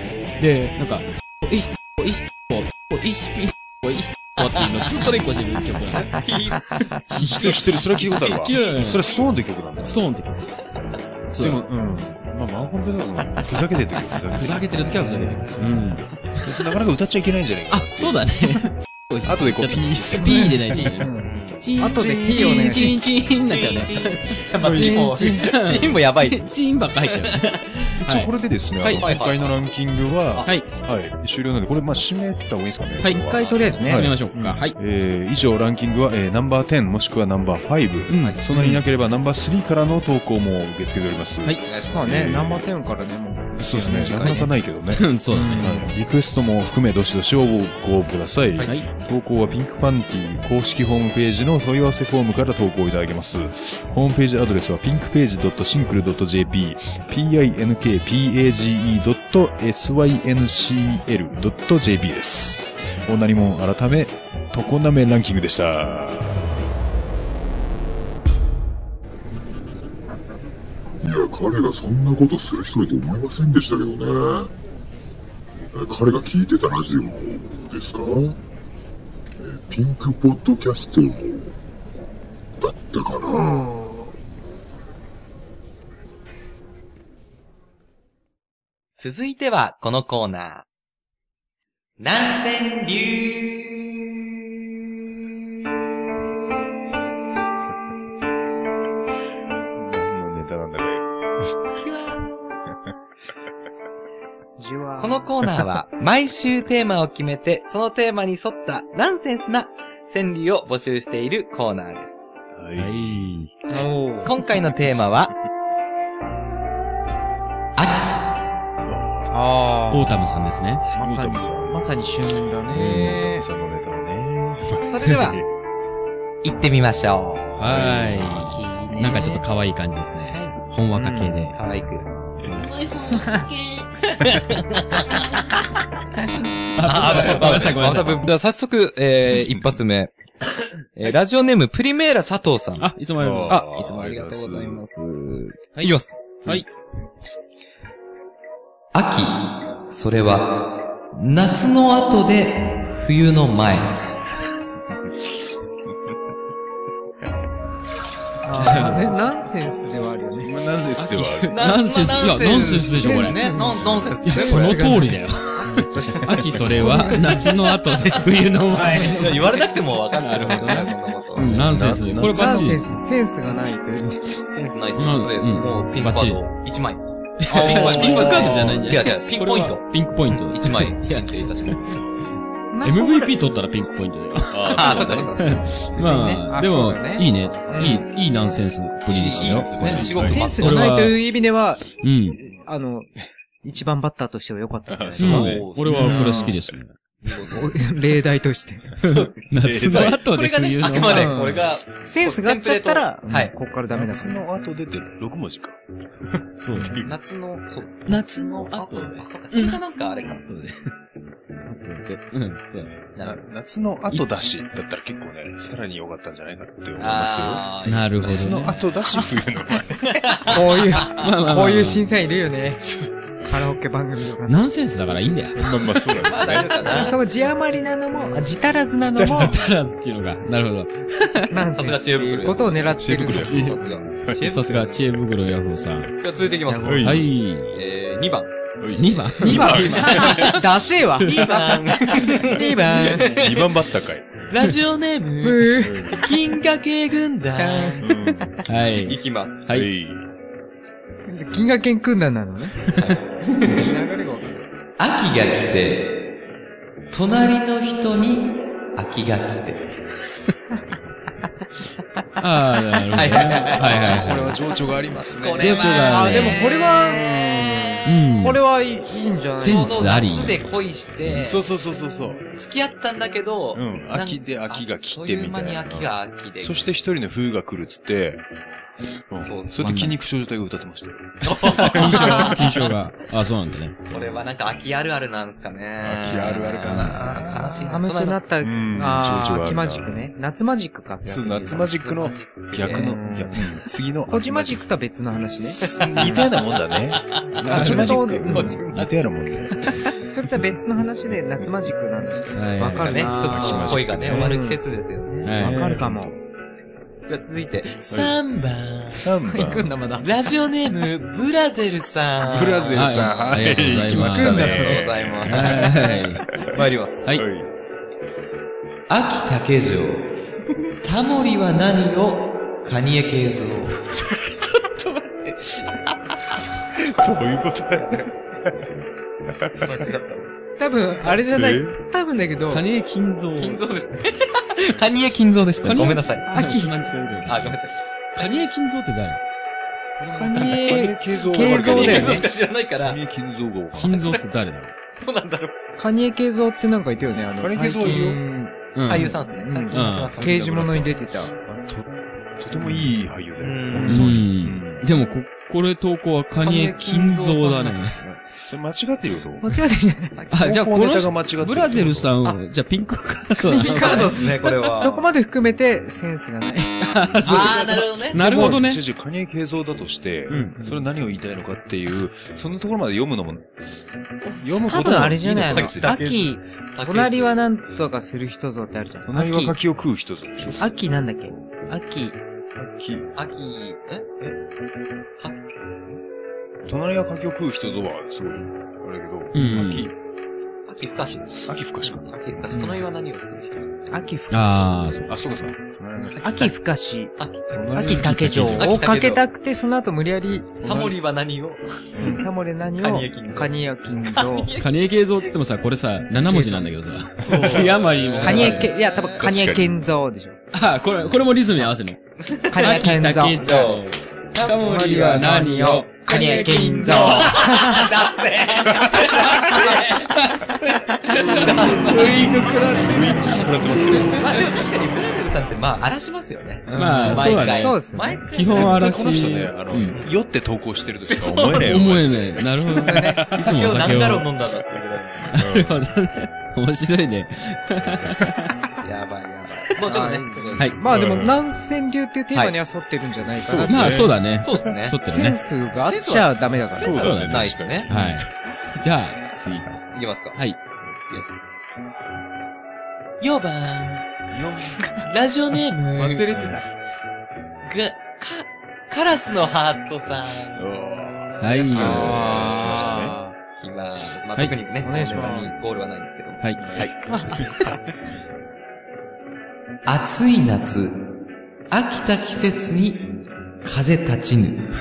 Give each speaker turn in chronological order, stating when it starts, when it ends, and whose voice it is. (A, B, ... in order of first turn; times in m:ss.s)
0:00.4-0:06.2 A
0:05.9-0:09.2 B
0:07.1-0:07.5 A
0:07.2-0:10.0 C
0:08.2-0:09.0 A
0:09.8-0:10.5 A
0:11.3-0:11.6 A
0:11.4-0:15.4 C
0:14.4-0:16.5 A
0:15.4-0:15.6 B
0:16.4-0:18.7 C
0:17.7-0:29.1 A
0:19.2-0:20.8 C
0:20.2-0:23.2 D
0:20.8-0:21.7 B
0:22.0-0:22.6 C
0:23.3-0:26.5 B
0:24.6-0:25.0 C
0:24.9-0:25.3 D
0:28.0-0:42.6 C
0:29.0-0:29.6 B
0:33.0-0:34.8 A
0:33.2-0:34.5 D
0:33.4-0:33.8 B
0:38.1-0:38.8 A
0:41.6-0:42.4 B
0:41.9-0:44.5 D
0:43.5-1:06.5 C
0:44.9-0:45.9 A
0:45.3-0:45.8 D
0:48.6-0:48.9 A
1:11.0-1:14.5 E
1:15.7-1:18.4 E
1:19.4-1:21.5 E
1:22.6-1:23.7 E
1:23.4-1:24.0 D
1:29.0-1:30.6 B
1:32.0-1:34.0 B
1:39.8-1:41.0 C
1:41.8-1:42.4 B
1:44.6-1:45.3 D
1:45.0-1:52.2 B
1:52.5-1:53.4 C
1:52.8-1:53.5 A
1:53.7-1:54.3 D
1:54.2-1:55.3 B
1:57.8-1:58.3 B
1:58.8-1:59.4 C
1:59.3-2:00.2 D
1:59.9-2:00.8 A
2:00.9-2:01.9 C
2:00.9-2:03.4 D
2:02.7-2:05.4 C
2:02.7-2:03.2 A
2:04.8-2:05.4 B
2:06.4-2:07.5 B
2:07.6-2:11.6 A
2:07.7-2:08.2 C
2:08.3-2:09.4 D
2:10.3-2:11.4 D
2:11.5-2:15.2 B
2:12.4-2:12.7 C
2:13.1-2:13.4 D
2:16.7-2:18.3 A
2:16.8-2:20.1 B
2:19.3-2:19.8 C
2:20.9-2:22.9 B
2:22.8-2:23.6 A
2:23.2-2:24.8 C
2:23.5-2:26.5 B
2:25.7-2:26.6 A
2:28.9-2:34.0 B
2:38.4-2:40.6 D
2:38.6-2:39.2 A
2:40.4-2:41.6 C
2:41.0-2:43.5 A
2:41.5-2:44.8 B
2:43.0-2:43.7 D
2:44.2-2:49.5 A
2:44.3-2:47.5 D
2:48.8-2:51.6 B
2:48.9-2:49.1 D
2:50.2-2:52.9 A
2:51.4-2:53.0 C
2:52.3-2:54.4 D
2:54.5-3:02.0 B
2:55.0-2:56.4 A
2:57.4-3:01.8 A
2:57.5-2:58.2 D
2:57.6-2:58.8 C
3:02.7-3:03.4 D
3:02.8-3:11.2 A
3:04.5-3:05.4 C
3:04.7-3:06.4 B
3:06.0-3:08.1 D
3:09.1-3:10.9 B
3:09.3-3:10.4 C
3:10.3-3:16.5 D
3:12.0-3:12.4 A
3:14.9-3:16.8 C
3:15.1-3:16.5 B
3:15.2-3:16.9 A
3:17.2-3:17.8 B
3:17.4-3:19.0 D
3:19.0-3:21.4 A
3:19.0-3:23.5 B
3:19.6-3:20.2 C
3:21.0-3:24.4 D
3:23.9-3:27.2 C
3:26.6-3:27.0 A
3:27.0-3:30.4 B
3:28.1-3:30.9 A
3:31.6-3:32.9 A
3:33.1-3:33.4 B
3:33.2-3:37.7 C
3:37.0-3:39.2 B
3:37.8-3:38.8 A
3:38.2-3:40.5 C
3:40.0-3:41.1 B
3:40.5-3:42.9 D
3:41.1-3:42.0 A
3:43.4-3:44.6 D
3:44.5-3:45.7 A
3:45.6-3:46.9 C
3:45.9-3:47.2 B
3:46.8-3:49.6 D
3:49.0-3:49.6 C
3:49.2-3:51.5 A
3:51.5-3:53.8 D
3:51.7-3:55.0 B
3:52.9-3:54.5 C
3:53.3-3:53.8 A
3:54.4-3:56.1 A
3:56.2-3:57.2 B
3:56.6-3:57.2 D
3:56.8-3:57.3 C
3:57.0-3:57.8 A
3:57.7-3:58.5 B
3:58.8-4:00.6 C
3:59.0-4:00.5 A
3:59.4-4:03.4 D
4:01.2-4:03.9 B
4:03.2-4:04.5 C
4:04.5-4:08.1 B
4:05.4-4:06.2 D
4:05.8-4:06.2 C
4:07.6-4:08.5 D
4:08.0-4:08.6 C
4:08.7-4:09.9 A
4:09.0-4:09.8 B
4:09.7-4:10.3 C
4:11.3-4:12.9 D
4:12.9-4:13.9 B
4:13.6-4:14.6 D
4:15.0-4:16.3 B
4:17.1-4:19.8 B
4:22.4-4:24.6 A
4:23.1-4:24.5 B
4:23.7-4:26.3 C
4:25.4-4:27.5 B
4:25.6-4:26.6 A
4:25.9-4:30.2 D
4:27.1-4:27.7 C
4:28.0-4:28.6 A
4:29.6-4:30.6 A
4:29.6-4:31.7 B
4:31.3-4:32.4 C
4:32.6-4:36.8 B
4:33.7-4:38.4 C
4:39.3-4:42.5 C
4:39.4-4:40.1 B
4:39.8-4:40.1 A
4:41.4-4:42.9 B
4:41.6-4:44.0 A
4:44.1-4:48.4 B
4:46.0-4:48.0 C
4:47.7-4:52.0 D
4:48.6-4:50.3 C
4:51.2-4:54.9 C
4:51.7-4:53.6 B
4:52.8-4:53.6 D
4:54.3-4:56.5 D
4:55.6-5:00.0 C
4:55.9-5:00.1 B
4:57.6-4:58.2 A
4:57.7-4:58.8 D
5:00.2-5:04.8 D
5:02.5-5:03.3 A
5:02.9-5:05.5 B
5:03.2-5:04.5 C
5:05.4-5:05.9 A
5:05.6-5:06.3 D
5:05.6-5:06.4 C
5:07.2-5:09.3 B
5:08.1-5:08.4 C
5:09.1-5:10.0 C
5:09.5-5:10.3 D
5:10.2-5:17.4 B
5:12.4-5:15.8 C
5:12.9-5:16.4 A
5:14.1-5:16.2 D
5:16.5-5:17.7 C
5:19.1-5:20.3 B
5:21.0-5:26.0 B
5:26.9-5:28.3 C
5:28.0-5:28.3 B
5:29.6-5:30.0 C
5:29.8-5:30.4 B
5:30.8-5:32.8 D
5:31.5-5:32.0 C
5:32.7-5:33.8 A
5:33.6-5:36.5 B
5:35.8-5:37.8 A
5:36.5-5:36.9 D
5:37.4-5:38.5 B
5:38.4-5:39.4 A
5:40.2-5:43.2 B
5:40.3-5:42.4 D
5:40.3-5:44.4 C
5:44.0-5:44.9 A
5:45.2-5:45.8 B
5:46.0-5:51.5 D
5:47.5-5:48.4 C
5:48.9-5:49.4 A
5:49.1-5:51.2 B
5:49.9-5:50.3 A
5:51.6-5:55.1 C
5:53.6-5:54.3 B
5:54.0-5:54.3 D
5:54.0-5:58.2 A
5:56.6-5:58.4 B
5:58.5-5:59.6 C
5:59.6-6:00.4 D
6:00.5-6:02.3 C
6:00.5-6:04.9 A
6:03.6-6:08.8 D
6:03.8-6:05.2 B
6:07.0-6:09.0 A
6:07.4-6:08.4 B
6:08.3-6:13.7 C
6:10.5-6:10.9 A
6:14.4-6:17.6 B
6:14.6-6:16.4 C
6:14.8-6:19.7 D
6:19.2-6:21.0 C
6:20.8-6:22.4 D
6:22.7-6:23.3 C
6:23.4-6:24.6 B
6:26.8-6:30.1 C
6:29.5-6:30.1 A
6:30.8-6:34.1 B
6:31.6-6:32.6 C
6:34.1-6:34.9 D
6:34.5-6:35.7 A
6:35.3-6:36.7 C
6:36.2-6:36.7 B
6:36.4-6:37.3 D
6:37.4-6:38.0 B
6:37.7-6:38.9 C
6:37.9-6:40.8 D
6:38.5-6:39.4 B
6:40.8-6:41.2 C
6:40.8-6:42.4 B
6:42.1-6:42.4 C
6:42.2-6:44.7 D
6:43.0-6:44.9 B
6:44.8-6:48.9 A
6:47.4-6:49.5 B
6:48.4-6:50.6 D
6:49.4-6:49.9 C
6:50.7-6:52.2 A
6:52.4-7:02.6 B
6:52.7-6:53.6 D
6:52.8-6:56.3 A
6:54.6-6:58.1 D
6:56.8-6:57.2 A
6:59.0-6:59.5 C
6:59.4-7:04.4 A
7:01.7-7:04.7 C
7:04.3-7:09.4 B
7:06.9-7:07.9 A
7:07.0-7:07.6 C
7:07.2-7:08.4 D
7:08.5-7:10.1 A
7:08.6-7:13.8 C
7:10.0-7:10.3 B
7:11.3-7:12.1 B
7:11.8-7:14.5 A
7:13.0-7:13.4 D
7:13.5-7:15.5 B
7:15.5-7:16.0 C
7:15.5-7:18.7 A
7:19.0-7:20.9 B
7:20.0-7:24.3 D
7:21.0-7:21.6 C
7:23.6-7:24.9 C
7:23.9-7:25.6 A
7:24.6-7:25.2 B
7:25.2-7:27.3 D
7:26.0-7:28.1 B
7:26.9-7:28.5 C
7:27.1-7:30.8 A
7:30.1-7:31.6 B
7:33.4-7:34.3 B
7:34.5-7:35.0 C
7:35.2-7:36.5 B
7:36.1-7:36.8 D
7:36.5-7:36.8 C
7:37.8-7:40.9 B
7:40.8-7:43.4 C
7:41.6-7:42.4 A
7:41.6-7:43.1 B
7:41.9-7:43.6 D
7:43.8-7:47.1 B
7:45.0-7:45.7 D
7:46.8-7:47.5 C
7:47.3-7:48.0 D
7:50.0-7:51.3 B
7:51.9-7:53.3 B
7:53.8-7:54.9 B